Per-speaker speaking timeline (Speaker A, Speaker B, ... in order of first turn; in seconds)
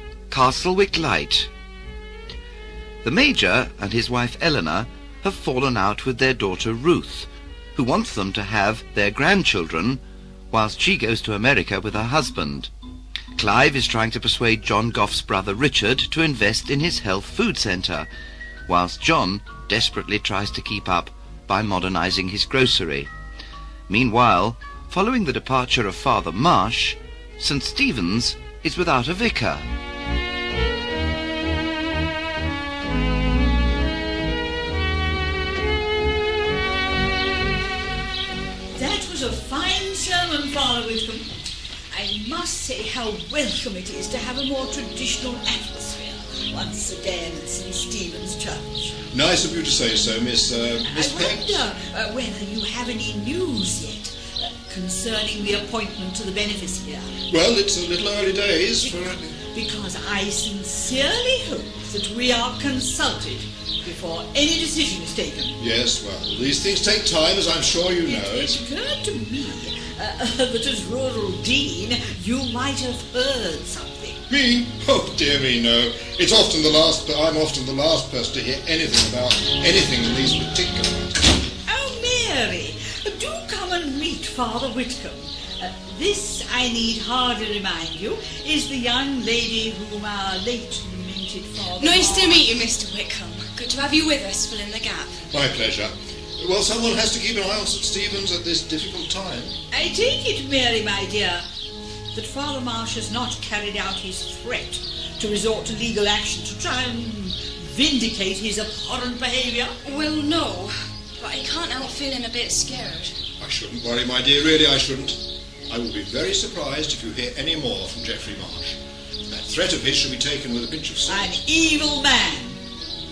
Speaker A: 0.3-1.5, 3.0-12.7, 13.3-18.1, 18.7-23.1, 23.9-29.7
Speaker B: 38.7-41.3, 41.9-49.0, 50.9-57.1, 58.8-65.6, 68.0-74.2, 81.7-92.4, 99.7-101.5, 102.1-109.7, 121.1-122.6
Speaker C: 49.1-51.6, 57.3-59.4, 65.6-68.6, 74.3-81.2, 95.3-99.5, 113.4-118.8, 119.3-121.3
Speaker D: 91.6-95.2, 109.8-113.2